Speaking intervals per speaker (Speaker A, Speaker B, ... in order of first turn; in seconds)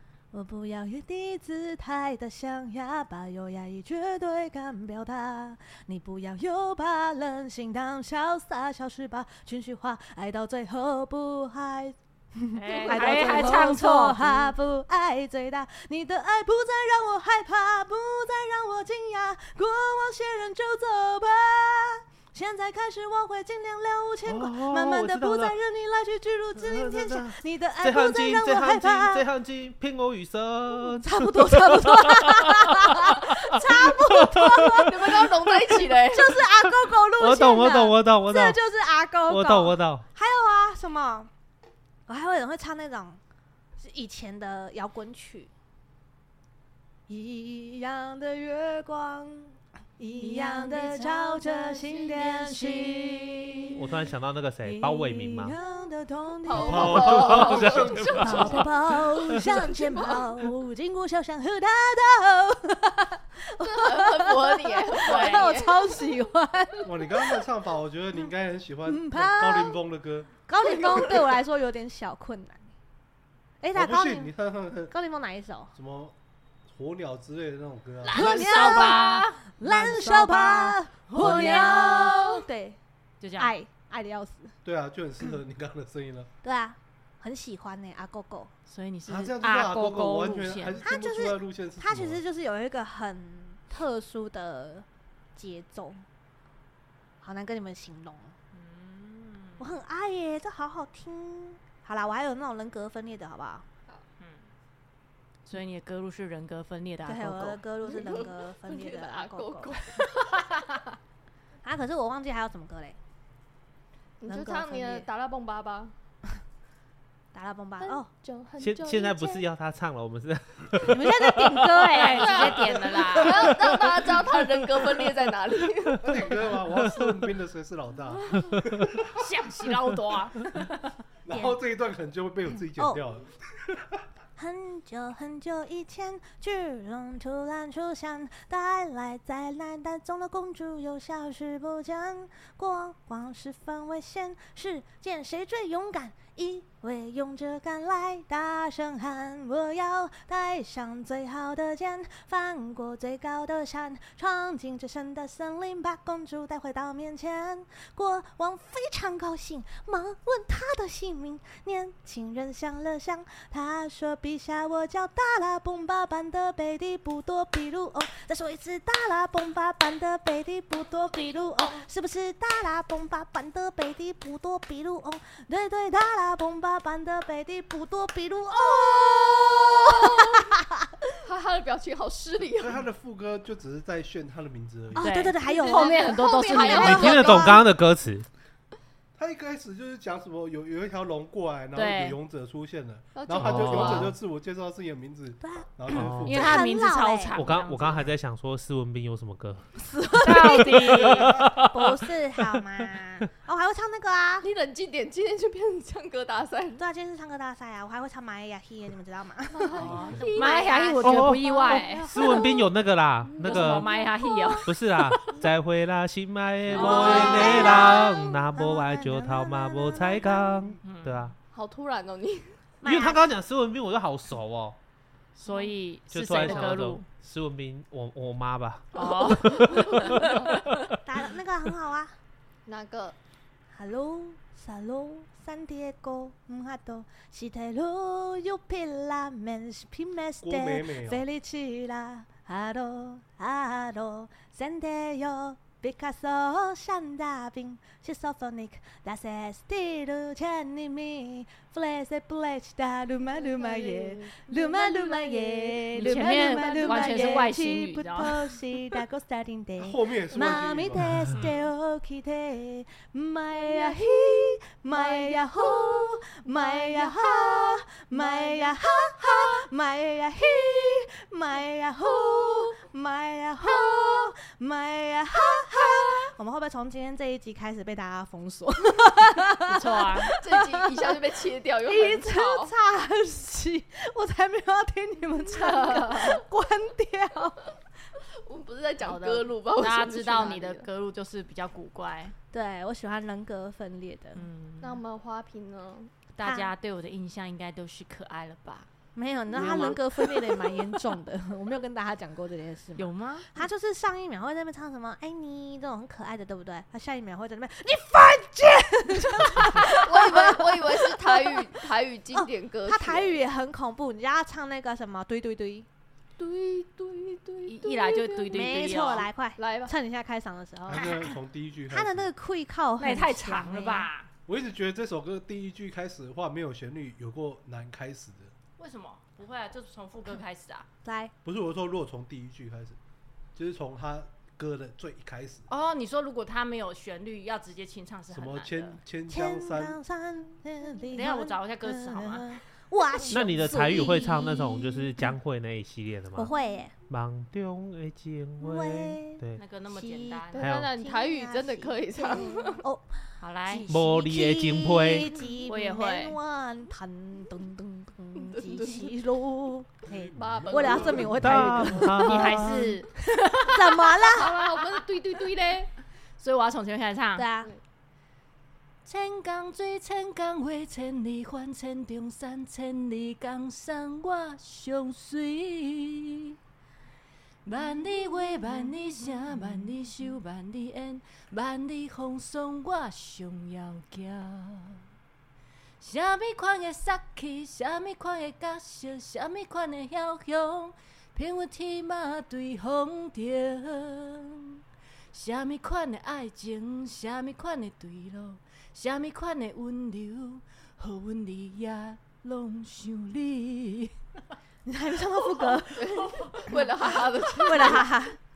Speaker A: 0.3-29.3, 30.7-41.3, 42.1-43.2, 43.8-45.5, 47.1-53.8, 54.6-67.4, 68.8-69.8, 70.5-72.6, 73.6-74.3, 74.9-75.7, 78.1-82.8, 83.4-84.5, 86.4-88.5, 90.8-96.0, 97.2-98.3, 99.6-103.7, 107.1-109.8, 111.6-113.0, 114.3-115.1, 117.3-118.1, 120.8-122.7, 134.4-181.1, 184.9-187.7, 195.4-195.7, 196.3-197.4, 199.8-204.5, 206.8-210.8, 211.4-212.4, 216.7-220.8, 222.8-223.3, 231.0-232.2, 233.7-281.1, 281.9-287.6, 292.5-294.5, 296.4-296.7, 299.1-315.9, 318.5-321.3, 321.9-324.1, 331.0-331.3, 339.3-345.4, 346.4-346.9, 348.6-362.9, 363.6-364.6, 367.4-367.7, 404.9-406.6, 407.6-408.4
Speaker B: 12.6-14.5, 50.3-51.5, 65.0-65.5, 78.0-82.4, 83.2-83.5, 88.7-90.8, 98.5-99.7, 104.2-104.5, 105.5-107.6, 121.6-123.6, 129.1-131.4, 185.0-187.3, 191.7-192.2, 196.2-198.1, 200.2-201.5, 209.8-212.3, 213.4-215.2, 216.7-218.1, 220.8-221.3, 225.4-227.1, 228.9-230.7, 255.9-258.6, 279.7-280.3, 285.5-286.4, 289.0-292.4, 294.4-295.0, 296.4-298.9, 299.5-300.8, 303.0-303.5, 317.7-319.3, 323.0-324.3, 328.8-330.9, 335.7-339.0, 341.1-342.6, 349.6-350.6, 353.4-353.9, 355.6-356.4, 361.5-364.3, 366.4-367.5, 369.1-376.6, 377.7-385.0, 386.0-394.8, 395.3-404.1, 407.6-408.0
Speaker C: 12.7-13.7, 34.8-36.4, 56.4-58.7, 59.3-60.2, 63.6-66.1, 70.7-71.1, 107.8-110.3, 114.2-115.9, 117.8-119.5, 122.1-126.3, 178.5-180.6, 181.2-182.8, 185.4-187.6, 193.2-194.1, 204.4-206.8, 209.5-212.7, 213.3-214.7, 216.8-217.7, 221.5-222.6, 225.5-225.7, 229.0-230.5, 232.7-233.2, 253.3-257.5, 263.6-264.4, 264.9-269.4, 272.1-272.8, 273.7-274.3, 275.5-276.3, 280.4-282.7, 288.4-290.9, 294.8-296.1, 309.9-313.4, 316.4-319.9, 350.5-352.8, 358.4-359.1, 360.4-361.4, 364.3-365.9, 405.9-408.1
Speaker D: 24.3-25.6, 26.6-34.9, 37.2-38.6, 39.3-40.0, 53.7-55.5, 56.9-59.6, 118.6-121.7, 126.9-127.2, 186.7-188.3, 193.4-194.1, 195.9-196.4, 197.3-199.7, 200.2-202.6, 211.0-213.9, 214.7-221.3, 222.8-224.8, 226.1-231.0, 261.1-261.4, 343.3-346.5, 347.1-349.6, 350.6-350.9, 353.9-355.3, 361.4-363.0
Speaker E: 56.6-58.6, 66.8-70.3, 73.7-74.9, 75.8-76.2, 76.7-78.7, 84.7-86.3, 89.1-92.2, 126.0-129.2, 131.2-133.8, 182.6-185.1, 189.2-196.6, 240.4-241.2, 259.8-261.2, 320.9-322.3, 324.5-328.5, 331.4-333.0, 333.6-335.7, 338.3-340.0, 360.1-361.6